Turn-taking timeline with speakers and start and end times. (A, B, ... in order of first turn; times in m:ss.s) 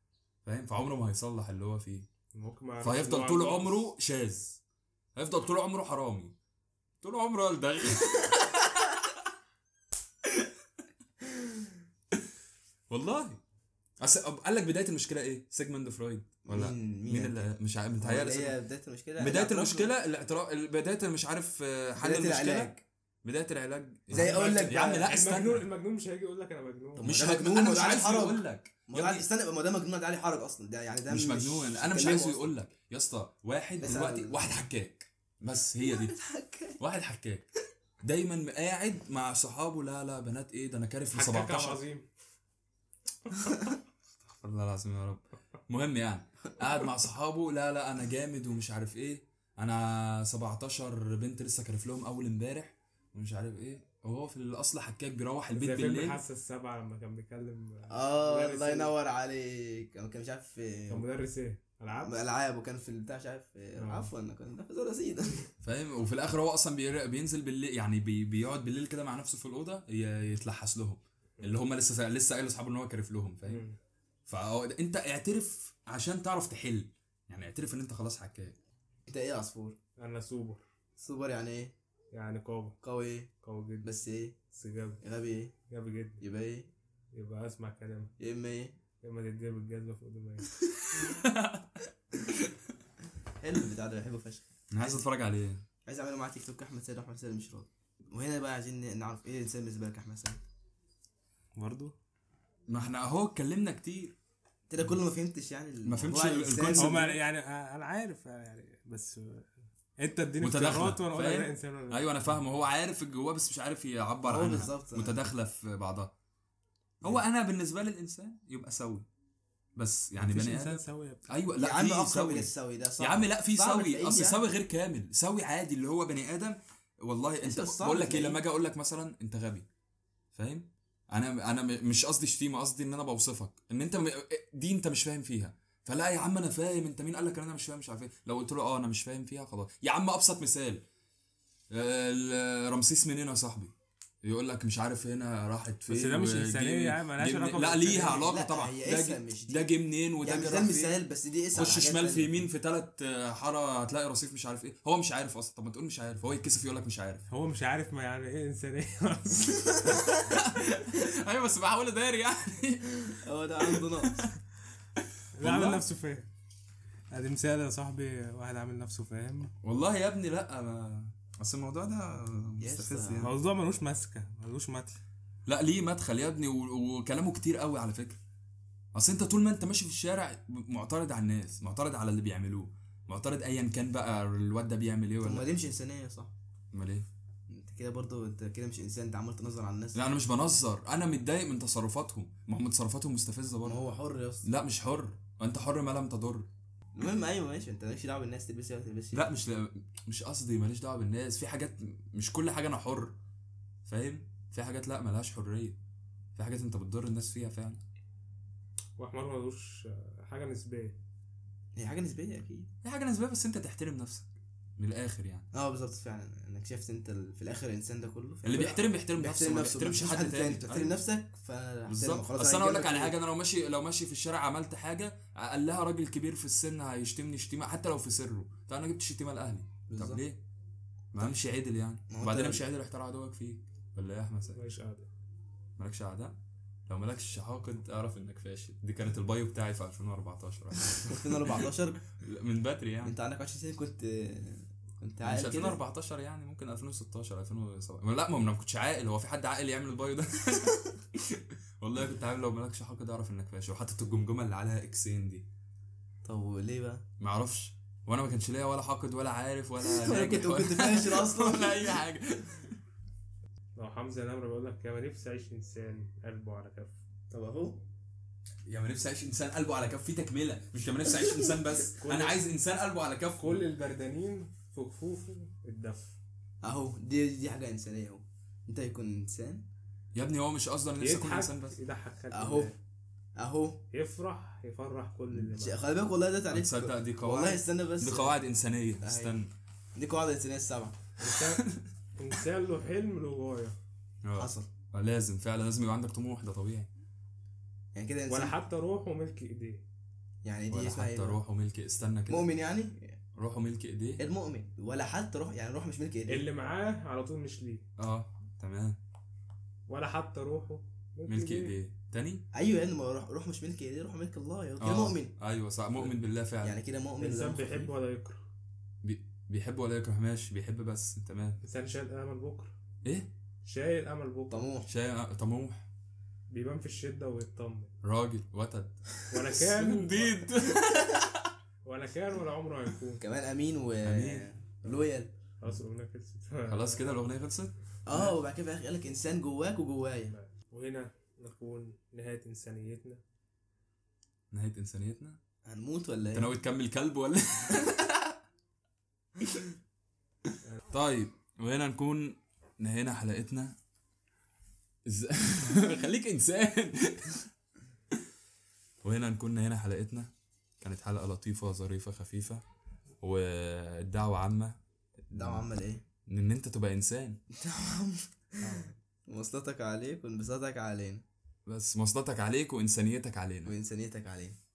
0:00.4-0:02.1 A
0:02.3-0:03.9 B
0:02.8-0:04.6 A
0:05.2-0:06.4 A
0:07.0-0:09.2 A
0:10.2-0:10.5 A
0:12.9-0:13.4 A
0:14.0-0:18.6 A
0:16.5-0:19.9 C
0:19.2-0:25.7 A
0:22.0-0:22.8 C
0:24.1-0:25.1 C
0:24.1-0:27.1 B
0:27.0-0:32.5 C
0:27.0-0:29.3 A
0:31.1-0:36.2 A
0:33.8-0:34.5 C
0:35.9-0:36.8 C
0:36.8-0:37.5 A
0:38.0-0:41.8 A
0:41.1-0:42.1 B
0:44.2-0:56.2 A
0:55.5-0:59.0 B
0:57.9-1:01.1 C
1:00.9-1:02.2 B
1:02.0-1:05.5 C
1:03.8-1:04.1 B
1:05.6-1:13.7 A
1:13.5-1:13.8 B
1:14.3-1:18.6 A
1:19.1-1:19.8 C
1:20.0-1:20.6 B
1:21.0-1:21.8 C
1:22.1-1:22.8 B
1:22.8-1:23.3 C
1:23.4-1:23.9 B
1:23.8-1:24.4 C
1:24.5-1:25.0 B
1:25.0-1:25.5 C
1:25.7-1:26.2 B
1:26.2-1:26.7 C
1:27.1-1:28.1 B
1:28.2-1:28.8 C
1:29.0-1:30.5 B
1:31.0-1:31.8 A
1:33.4-1:35.0 C
1:34.7-1:35.6 A
1:35.9-1:40.4 C
1:41.6-1:42.0 B
1:42.7-1:44.2 A
1:44.7-1:47.1 C
1:45.8-1:47.2 A
1:46.8-1:49.5 B
1:50.0-1:52.1 B
1:50.4-1:56.1 A
1:54.2-1:55.2 C
1:57.0-1:59.1 A
1:59.8-2:09.7 A
2:00.2-2:01.2 B
2:01.6-2:04.4 C
2:07.4-2:08.4 C
2:10.3-2:20.8 A
2:21.7-2:23.7 A
2:24.2-2:31.0 A
2:25.9-2:28.3 B
2:28.0-2:29.7 C
2:30.2-2:32.5 C
2:31.5-2:37.2 A
2:37.3-2:40.2 B
2:40.2-2:44.3 A
2:43.2-2:44.3 C
2:45.0-2:45.8 A
2:45.4-2:46.3 B
2:47.1-2:49.5 B
2:49.6-2:53.3 A
2:52.6-2:53.3 C
2:53.2-2:55.0 B
2:55.5-2:58.2 A
2:58.9-3:05.5 A
3:05.2-3:06.3 C
3:06.7-3:07.1 A
3:07.5-3:10.1 C
3:10.0-3:13.8 A
3:13.6-3:14.5 C
3:14.4-3:16.5 A
3:17.0-3:19.3 C
3:19.1-3:23.2 A
3:23.9-3:25.8 A
3:26.4-3:27.8 A
3:29.0-3:31.0 B
3:31.8-3:32.7 C
3:32.8-3:35.5 A
3:35.5-3:43.2 C
3:38.4-3:41.0 A
3:41.9-3:50.4 A
3:49.9-3:50.2 C
3:51.1-3:54.6 A
3:52.1-3:52.6 C
3:54.5-3:55.1 B
3:55.8-4:03.2 A
4:01.1-4:02.0 C
4:03.0-4:05.8 C
4:05.2-4:15.5 A
4:16.2-4:17.0 C
4:17.2-4:22.8 A
4:19.8-4:22.0 C
4:23.8-4:27.0 B
4:27.3-4:27.8 C
4:28.7-4:33.6 A
4:32.0-4:32.4 B
4:33.4-4:36.2 B
4:36.6-4:39.7 C
4:40.1-4:41.8 A
4:41.0-4:42.8 B
4:42.3-4:42.7 C
4:43.4-4:43.9 C
4:43.9-4:45.8 B
4:45.3-4:48.4 C
4:46.5-4:49.5 A
4:49.0-4:49.4 C
4:50.0-4:51.0 C
4:51.2-4:53.8 B
4:51.5-4:51.8 A
4:54.2-4:56.9 A
4:54.4-4:54.7 C
4:58.0-4:58.6 C
4:58.3-4:59.8 B
5:00.4-5:01.4 C
5:00.7-5:02.5 A
5:02.3-5:03.2 C
5:03.4-5:04.2 A
5:04.2-5:06.4 C
5:06.3-5:07.8 B
5:08.0-5:09.0 A
5:09.9-5:11.7 B
5:11.3-5:12.5 A
5:12.5-5:15.3 C
5:14.8-5:16.8 A
5:16.6-5:17.9 C
5:17.2-5:18.4 B
5:19.0-5:21.6 A
5:21.6-5:22.8 B
5:23.0-5:23.3 A
5:23.6-5:24.7 B
5:24.5-5:24.9 C
5:24.9-5:25.9 A
5:26.5-5:27.9 B
5:28.0-5:31.6 A
5:29.3-5:30.5 B
5:31.8-5:33.3 B
5:33.2-5:35.3 C
5:34.1-5:34.4 A
5:35.6-5:37.1 B
5:36.7-5:38.3 A
5:38.1-5:40.3 C
5:40.3-5:43.2 B
5:44.5-5:45.4 A
5:45.6-5:46.5 C
5:46.3-5:48.4 A
5:50.9-5:53.8 A
5:55.1-5:57.5 A
5:59.0-6:02.6 A
6:03.2-6:04.8 A
6:05.3-6:05.7 A
6:05.3-6:06.0 C
6:06.3-6:07.4 A
6:07.5-6:11.3 C
6:08.6-6:08.9 B
6:11.7-6:13.7 A
6:13.7-6:14.6 C